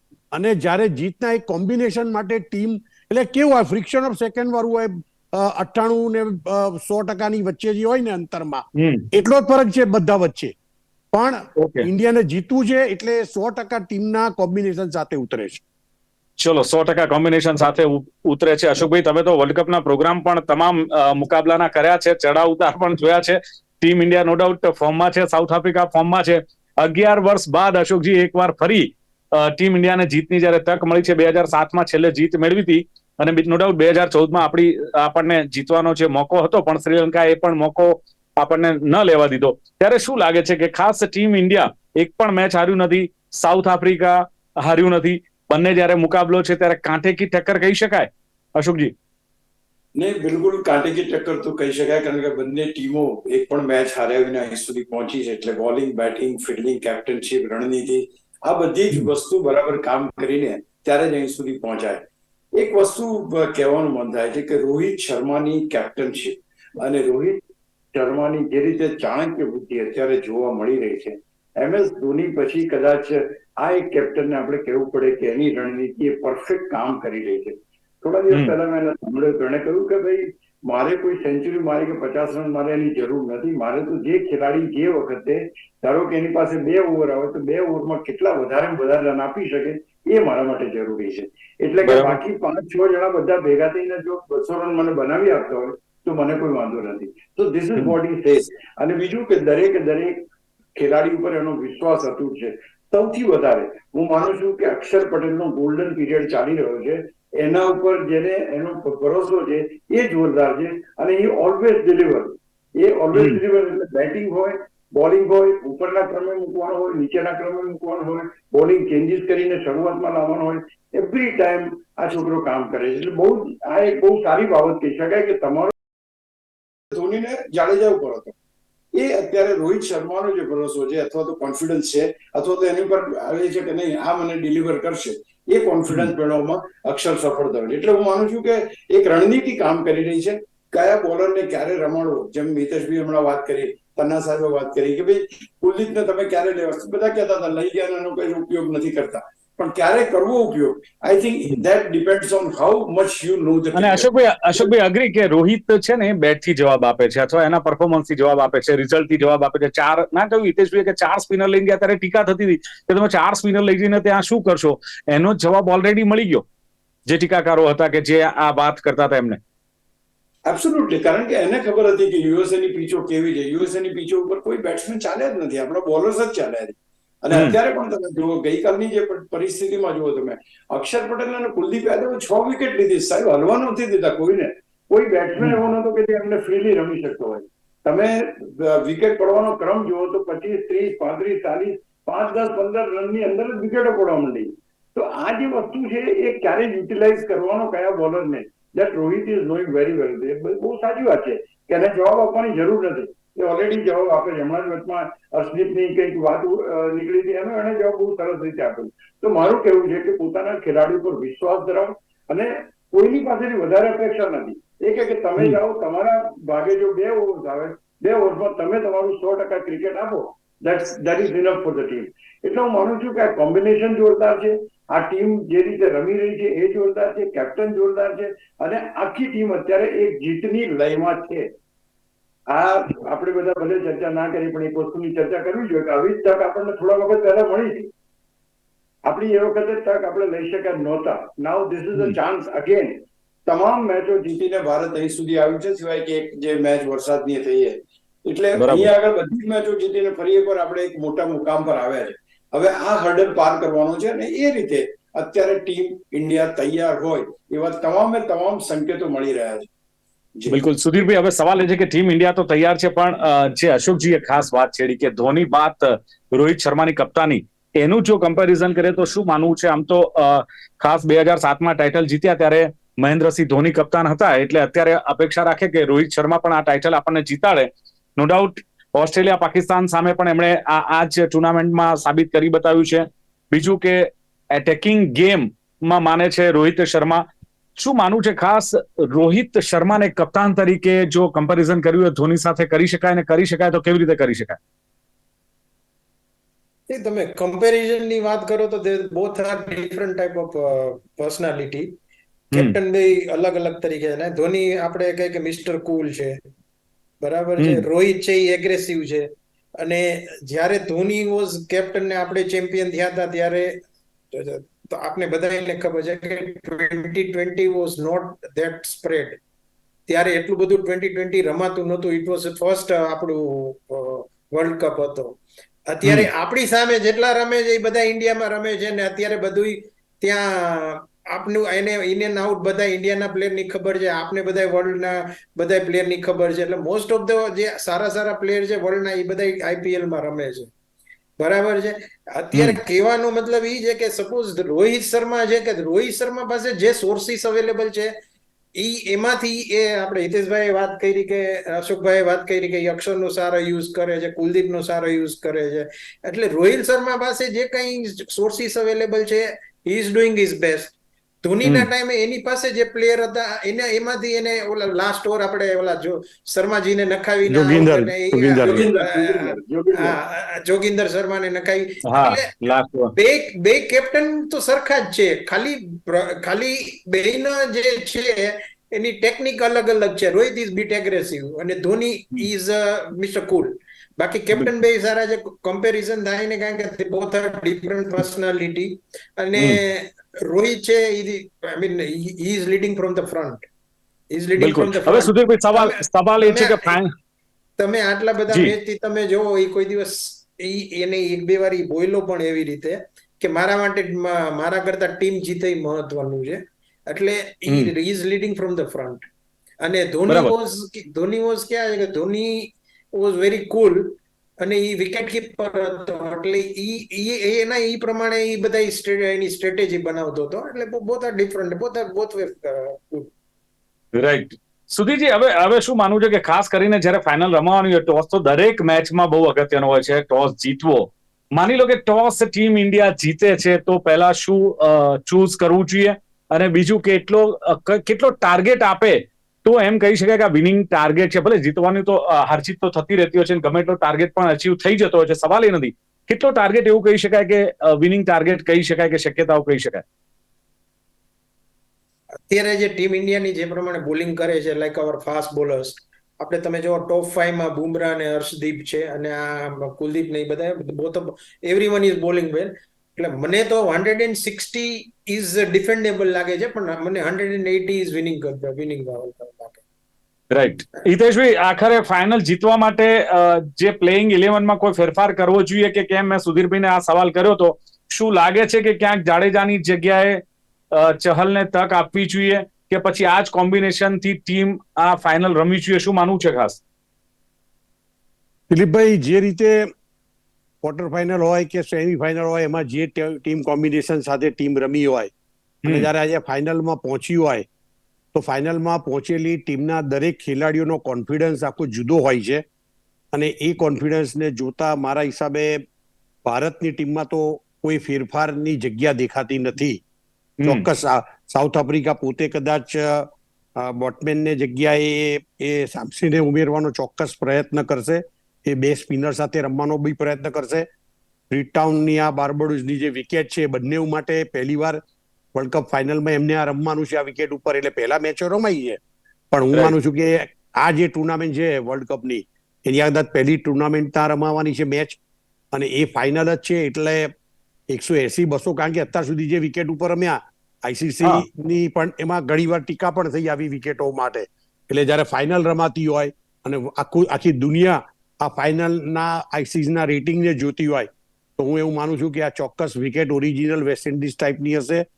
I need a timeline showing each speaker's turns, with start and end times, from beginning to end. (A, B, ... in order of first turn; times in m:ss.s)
0:00.3-0:10.5 A
0:08.8-0:09.0 B
0:11.1-0:15.6 A
0:11.6-0:11.9 B
0:16.4-0:48.9 B
0:49.9-1:07.4 C
1:07.9-1:40.2 C
1:18.3-1:18.6 B
1:31.8-1:32.2 B
1:40.8-2:05.7 C
1:53.1-1:53.4 B
2:06.9-2:08.3 C
2:08.9-2:34.7 C
2:33.7-2:46.4 B
2:47.0-2:49.4 B
2:50.4-3:51.5 C
2:57.3-2:57.6 B
3:52.5-3:57.9 C
3:59.0-4:19.7 C
4:08.6-4:08.9 B
4:20.5-4:47.2 B
4:47.8-4:54.6 B
4:56.9-5:01.9 D
5:02.5-5:06.4 D
5:07.2-5:09.3 D
5:09.8-5:13.8 D
5:14.3-5:19.4 D
5:20.1-5:40.7 D
5:41.4-5:48.1 D
5:48.8-6:12.6 D
6:07.5-6:08.9 A
6:08.6-6:10.2 C
6:12.1-6:13.1 B
6:13.1-6:33.6 D
6:34.3-6:37.0 D
6:34.6-6:37.1 B
6:37.8-6:49.3 D
6:49.8-7:03.3 D
7:04.1-7:30.0 B
7:32.5-7:49.8 D
7:50.5-8:00.4 B
8:00.9-8:06.8 B
8:08.7-8:09.8 A
8:10.8-8:15.3 A
8:15.8-8:17.6 A
8:18.3-8:22.6 A
8:23.3-8:25.8 A
8:26.4-8:30.0 A
8:30.6-8:30.8 B
8:30.6-8:40.9 A
8:41.5-8:45.0 A
8:45.5-8:49.0 A
8:49.5-8:55.2 A
8:55.7-8:57.3 A
8:57.9-9:15.0 A